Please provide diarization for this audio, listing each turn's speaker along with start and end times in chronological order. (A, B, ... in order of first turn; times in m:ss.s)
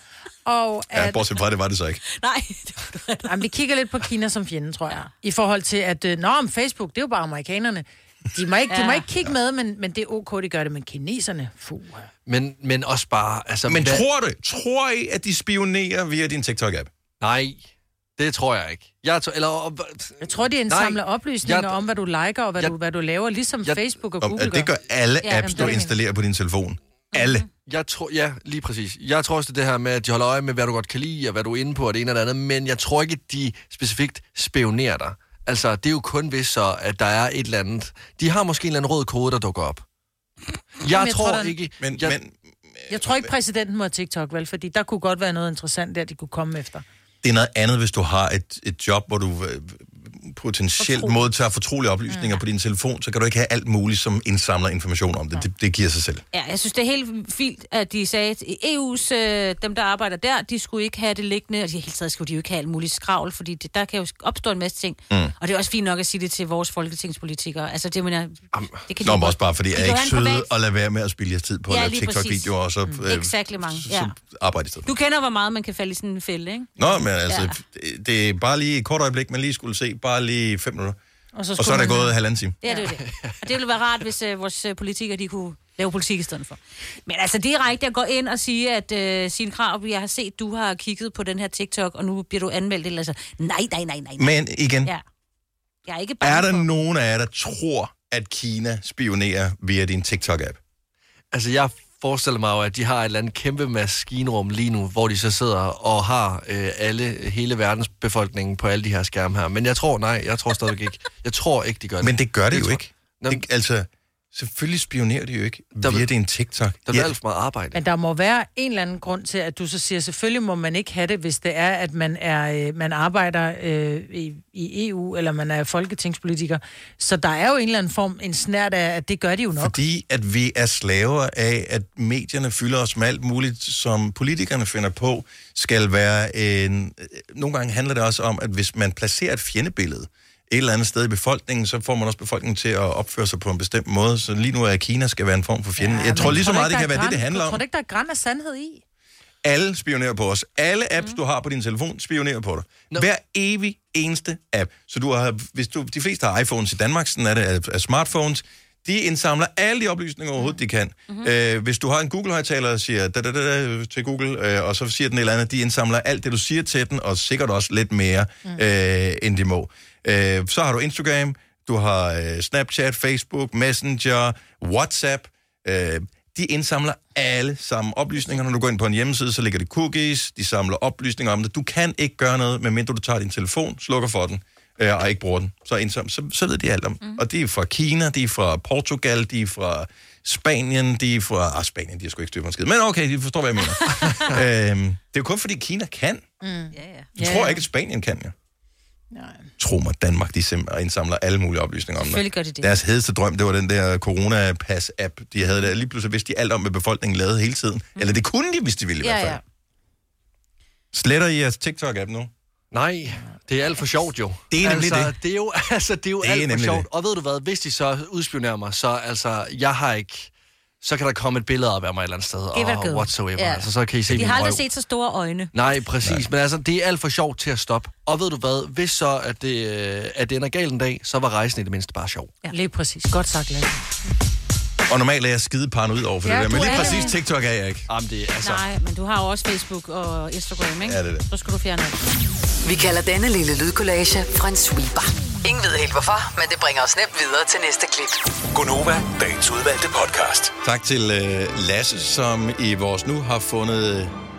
0:00.4-0:01.2 A
0:00.9-0:02.0 B
0:02.1-0:03.3 C
0:03.2-0:12.1 A
0:08.7-0:09.0 C
0:12.3-0:14.0 D
0:13.7-0:16.9 B
0:17.2-0:21.8 D
0:20.2-0:24.7 A
0:23.6-0:23.9 D
0:24.2-0:27.4 B
0:25.2-0:25.7 C
0:25.3-0:25.9 A
0:27.1-0:27.5 C
0:27.6-0:39.8 D
0:40.8-0:42.2 D
0:40.9-0:41.5 A
0:41.8-0:43.2 B
0:42.9-0:46.8 A
0:47.2-0:56.2 B
0:50.8-0:51.2 A
0:52.1-0:52.4 A
0:56.3-1:10.5 C
1:09.0-1:14.9 B
1:11.7-1:12.5 C
1:13.0-1:14.1 C
1:14.8-1:16.8 C
1:16.8-1:21.0 B
1:17.3-1:17.5 C
1:21.4-1:22.1 A
1:21.6-1:22.6 B
1:22.6-1:35.0 C
1:23.0-1:23.4 D
1:34.2-1:34.9 B
1:35.9-1:36.7 C
1:36.2-1:40.6 B
1:41.3-1:53.4 D
1:52.0-1:57.1 B
1:55.8-1:56.1 D
1:56.9-1:57.8 D
1:57.7-2:09.8 A
2:09.6-2:27.6 B
2:25.8-2:28.8 A
2:29.4-3:16.2 B
3:16.4-3:17.6 A
3:16.7-3:17.1 C
3:17.2-3:18.3 B
3:19.1-3:19.5 A
3:19.6-3:29.4 B
3:22.0-3:22.7 C
3:29.0-3:29.4 C
3:30.9-3:32.3 B
3:32.7-3:40.3 D
3:34.5-3:35.1 B
3:36.2-3:36.8 B
3:40.8-3:44.6 D
3:42.5-3:45.5 C
3:45.5-3:52.3 D
3:52.5-3:53.8 A
3:54.9-3:57.9 B
3:56.2-3:57.1 A
3:56.5-3:57.1 C
3:57.9-3:58.6 D
3:58.4-4:02.0 C
4:00.8-4:01.2 B
4:02.6-4:08.2 E
4:08.5-4:10.5 F
4:10.6-4:14.1 B